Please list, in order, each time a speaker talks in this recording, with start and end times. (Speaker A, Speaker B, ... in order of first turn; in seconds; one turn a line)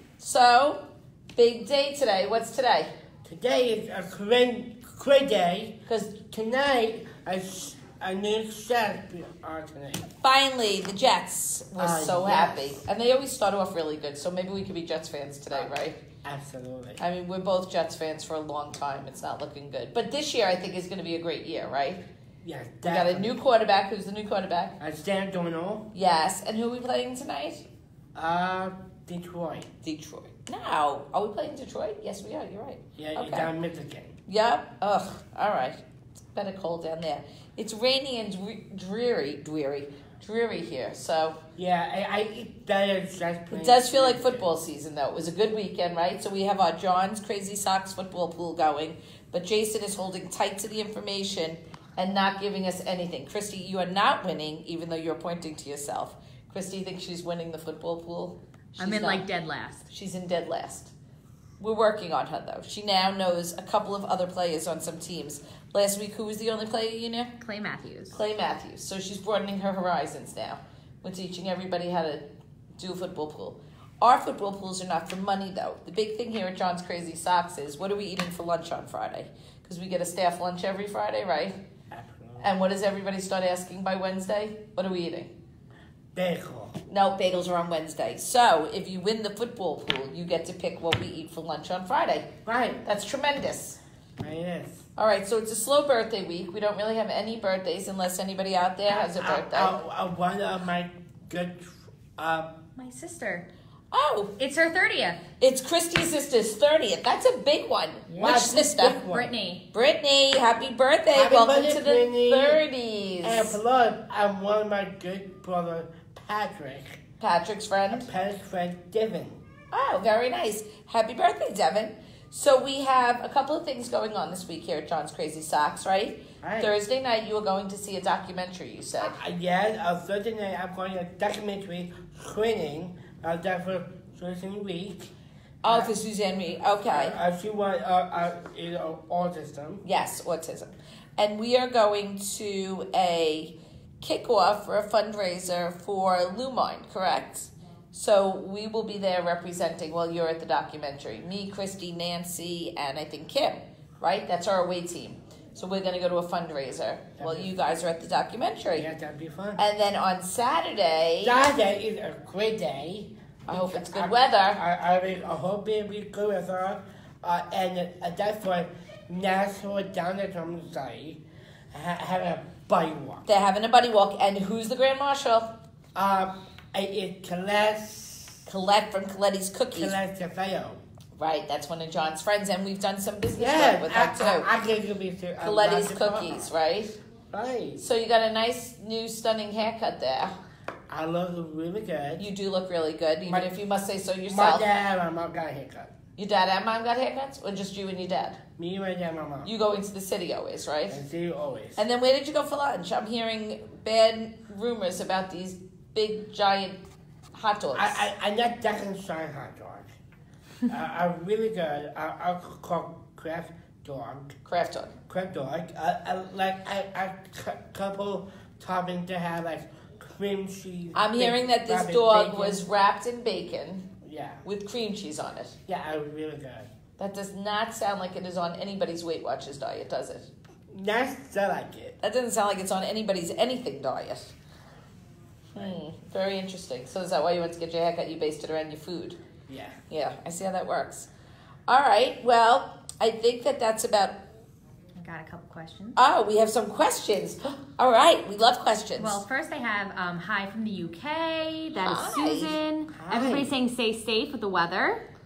Speaker A: 0.2-0.8
Speaker A: 1.3-2.9
Speaker B: 3.2-10.1
Speaker A: 5.8-6.2
Speaker A: 10.2-16.0
Speaker B: 11.8-12.8
Speaker B: 16.2-17.0
Speaker A: 17.0-22.0
Speaker B: 22.4-23.4
Speaker A: 22.8-24.8
Speaker B: 24.8-25.9
Speaker A: 25.9-27.6
Speaker B: 28.1-29.7
Speaker A: 29.8-33.5
Speaker B: 33.0-34.1
Speaker A: 34.3-35.8
Speaker A: 36.3-41.4
Speaker B: 41.5-44.5
Speaker A: 43.5-59.3
Speaker C: 58.8-59.9
Speaker A: 59.9-60.9
Speaker A: 61.6-67.3
Speaker C: 67.4-68.2
Speaker A: 68.1-72.2
Speaker A: 72.8-81.6
Speaker B: 81.9-82.5
Speaker A: 82.4-85.3
Speaker B: 86.1-86.8
Speaker A: 86.9-92.3
Speaker B: 92.4-92.8
Speaker A: 92.8-93.8
Speaker B: 94.2-94.8
Speaker A: 95.0-99.8
Speaker B: 98.9-102.6
Speaker C: 102.8-103.5
Speaker A: 103.9-104.3
Speaker C: 104.4-105.2
Speaker A: 105.4-109.0
Speaker C: 108.1-109.6
Speaker B: 108.2-109.3
Speaker A: 109.7-113.6
Speaker B: 111.1-112.6
Speaker B: 113.2-117.0
Speaker A: 117.2-118.1
Speaker B: 117.9-119.4
Speaker A: 119.7-129.2
Speaker B: 126.4-126.7
Speaker B: 129.0-135.1
Speaker A: 135.6-137.2
Speaker B: 135.7-135.9
Speaker B: 136.9-139.8
Speaker A: 139.8-158.8
Speaker B: 157.2-157.5
Speaker B: 158.7-159.6
Speaker A: 159.6-161.3
Speaker B: 161.2-173.2
Speaker A: 163.5-164.6
Speaker A: 173.2-175.5
Speaker B: 175.9-178.5
Speaker A: 178.5-179.9
Speaker B: 179.7-180.8
Speaker A: 181.2-184.5
Speaker B: 183.3-186.5
Speaker A: 185.4-187.0
Speaker B: 187.3-187.8
Speaker A: 187.8-190.4
Speaker B: 190.9-192.2
Speaker A: 192.2-194.7
Speaker B: 193.3-193.5
Speaker B: 194.3-195.9
Speaker A: 196.2-198.4
Speaker B: 198.6-199.5
Speaker A: 199.4-201.0
Speaker B: 200.9-201.8
Speaker A: 201.8-206.8
Speaker A: 207.3-208.1
Speaker B: 207.7-209.9
Speaker B: 210.7-214.3
Speaker A: 214.4-214.9
Speaker B: 215.1-222.6
Speaker A: 220.9-223.9
Speaker B: 224.0-224.4
Speaker A: 224.4-225.6
Speaker B: 225.7-226.7
Speaker A: 227.0-230.3
Speaker B: 230.7-232.0
Speaker A: 232.0-234.3
Speaker B: 235.5-235.8
Speaker A: 235.5-239.2
Speaker B: 239.5-239.8
Speaker A: 239.9-241.1
Speaker A: 241.7-244.1
Speaker C: 244.9-246.0
Speaker A: 245.9-249.2
Speaker C: 248.9-255.0
Speaker A: 251.8-252.6
Speaker B: 252.9-253.6